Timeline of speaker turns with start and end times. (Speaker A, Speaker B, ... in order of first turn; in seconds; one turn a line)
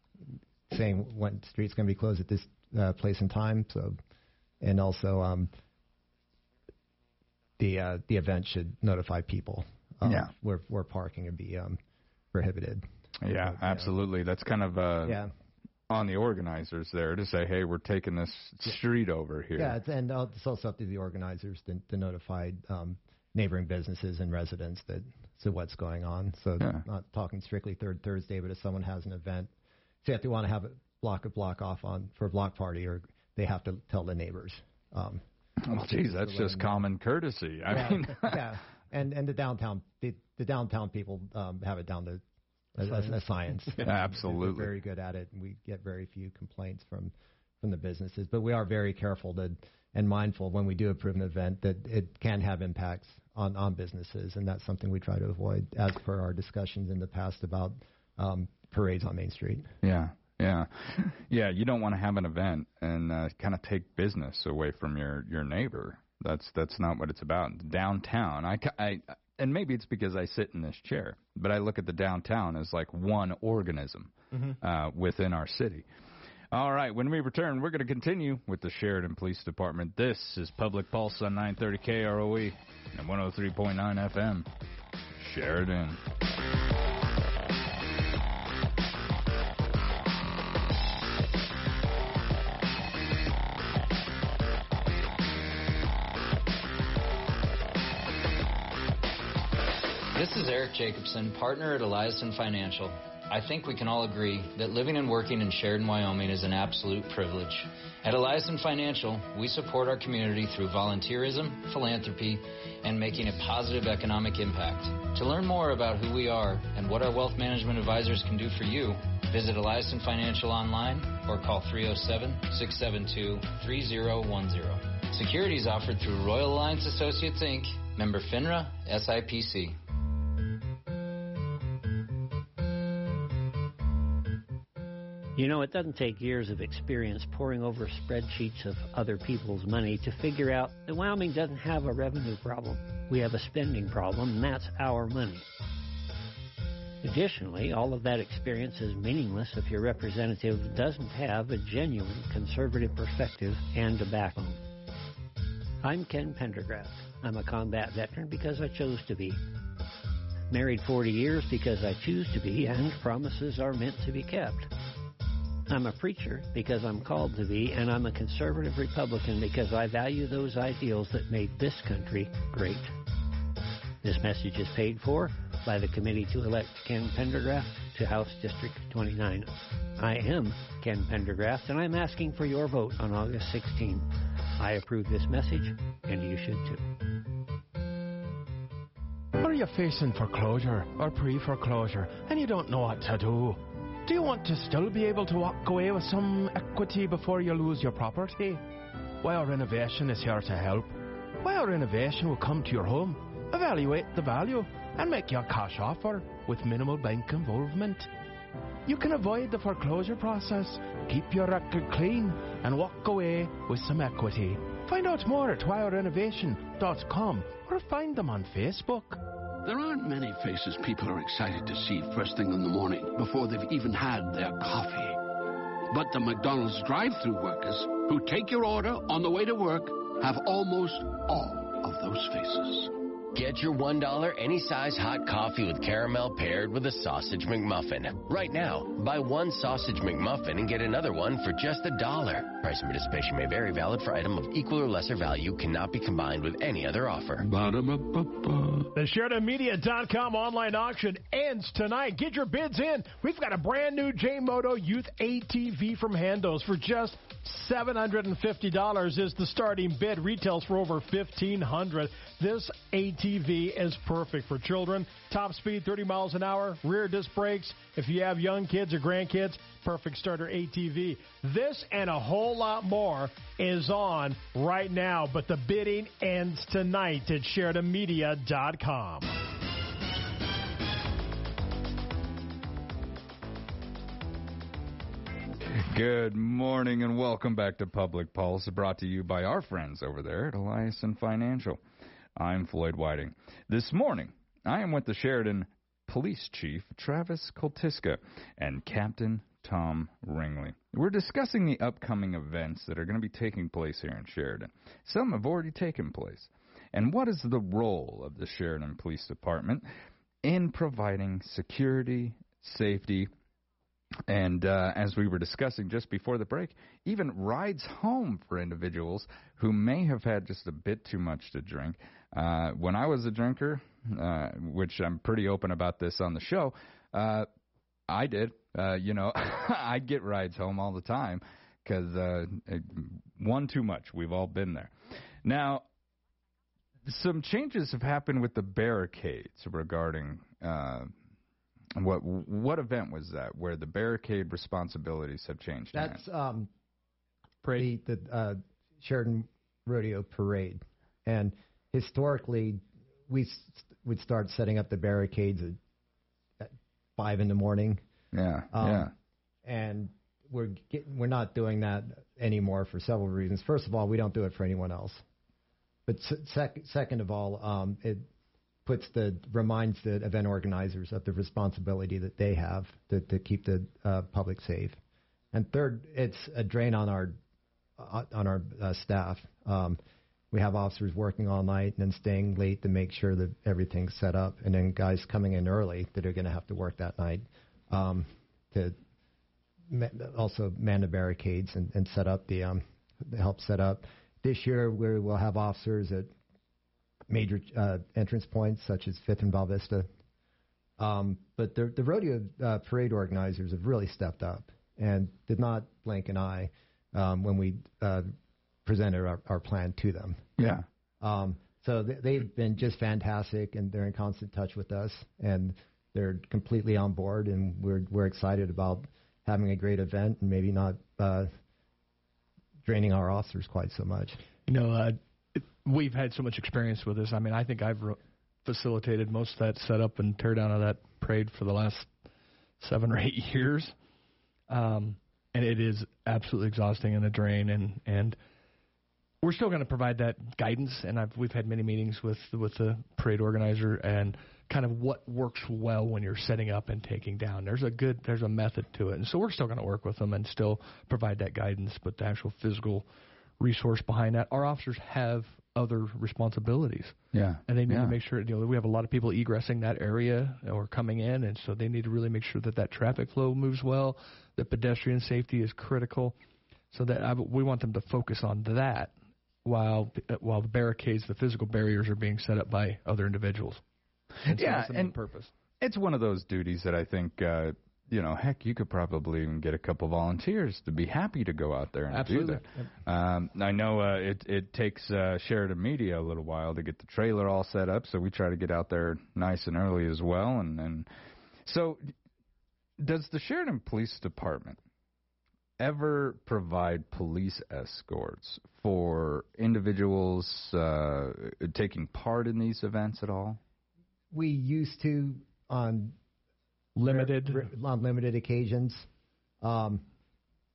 Speaker A: 0.3-4.0
Speaker A: 4.6-5.5
Speaker A: 7.6-11.8
Speaker B: 10.0-10.3
Speaker A: 12.3-12.8
Speaker B: 13.2-15.2
Speaker A: 13.4-13.9
Speaker A: 15.1-15.3
Speaker B: 15.9-19.8
Speaker A: 19.6-29.5
Speaker A: 30.0-36.7
Speaker B: 35.6-38.4
Speaker A: 37.7-42.2
Speaker A: 42.8-59.7
Speaker B: 43.8-44.7
Speaker B: 59.8-75.9
Speaker C: 74.3-74.6
Speaker B: 76.5-84.5
Speaker B: 85.2-86.0
Speaker D: 100.1-129.8
Speaker E: 135.4-145.4
Speaker E: 147.0-154.6
Speaker E: 155.8-159.4
Speaker E: 160.5-164.7
Speaker E: 165.7-172.9
Speaker E: 174.0-186.8
Speaker F: 189.4-198.7
Speaker F: 199.2-208.1
Speaker F: 208.9-219.2
Speaker G: 219.7-225.2
Speaker G: 225.9-232.9
Speaker H: 233.3-247.4
Speaker G: 247.4-248.9
Speaker I: 248.9-279.3
Speaker B: 285.9-291.8
Speaker B: 292.4-309.9
Speaker B: 310.4-313.3
Speaker B: 314.3-327.5
Speaker B: 328.1-334.9
Speaker B: 335.4-335.9
Speaker B: 337.1-341.1
Speaker B: 342.0-346.2
Speaker A: 345.9-346.7
Speaker C: 347.6-347.9
Speaker A: 347.8-355.8
Speaker A: 356.6-358.0
Speaker B: 358.3-359.1
Speaker A: 358.7-359.1
Speaker A: 359.6-365.2
Speaker A: 366.1-368.3
Speaker A: 368.9-375.0
Speaker A: 375.5-377.4
Speaker A: 378.0-380.0
Speaker A: 380.5-389.0
Speaker A: 389.9-396.3
Speaker A: 397.3-400.1
Speaker A: 401.0-408.3
Speaker A: 408.9-410.4
Speaker B: 410.6-410.9
Speaker A: 411.2-421.5
Speaker A: 422.9-424.4
Speaker C: 424.7-432.1
Speaker C: 432.8-433.9
Speaker C: 434.7-438.4
Speaker C: 439.4-453.1
Speaker C: 453.6-457.2
Speaker B: 457.3-458.1
Speaker C: 457.7-466.4
Speaker C: 466.9-469.1
Speaker C: 469.6-473.8
Speaker B: 474.5-475.1
Speaker C: 474.5-475.5
Speaker B: 475.8-491.1
Speaker C: 482.1-482.8
Speaker B: 491.6-492.1
Speaker B: 493.0-494.8
Speaker B: 495.8-503.6
Speaker A: 504.3-506.2
Speaker C: 507.0-507.7
Speaker A: 507.0-509.1
Speaker A: 509.6-510.0